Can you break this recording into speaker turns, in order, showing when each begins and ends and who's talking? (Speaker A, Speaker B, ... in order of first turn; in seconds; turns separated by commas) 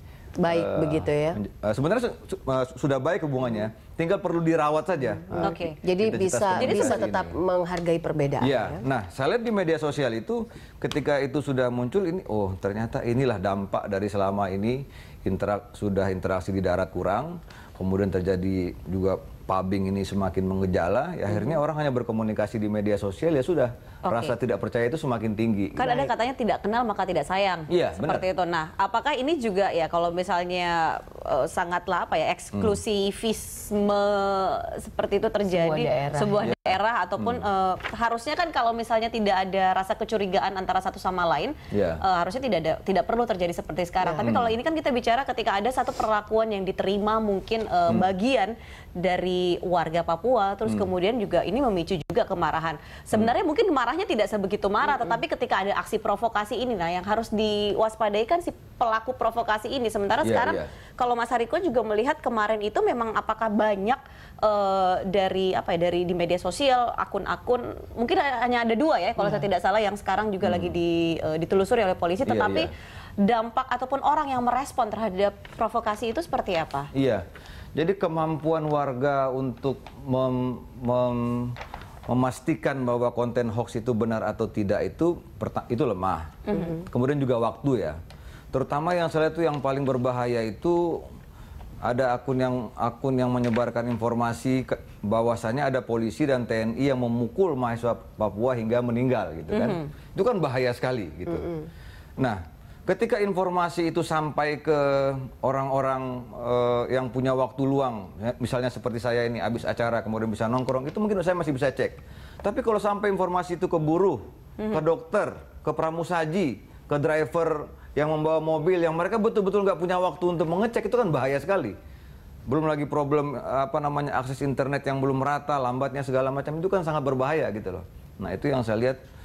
Speaker A: 0.4-1.4, Speaker B: 0.5-7.4, Speaker A: 5.2-8.8, Speaker C: 5.4-5.8, Speaker C: 6.6-7.0, Speaker B: 8.4-25.8, Speaker C: 24.1-24.3, Speaker C: 25.8-72.7, Speaker A: 25.8-26.1, Speaker B: 27.7-28.2, Speaker B: 32.5-32.8, Speaker A: 35.5-36.5, Speaker B: 36.4-37.4, Speaker B: 41.7-42.0, Speaker B: 44.2-44.5, Speaker B: 60.2-60.7, Speaker B: 70.4-70.8, Speaker B: 72.2-72.7, Speaker C: 73.2-76.9, Speaker B: 76.9-81.6, Speaker B: 82.1-88.0, Speaker C: 86.5-86.8, Speaker B: 88.5-91.0, Speaker B: 91.8-101.5, Speaker C: 99.5-99.8, Speaker B: 102.2-121.8, Speaker B: 122.5-129.0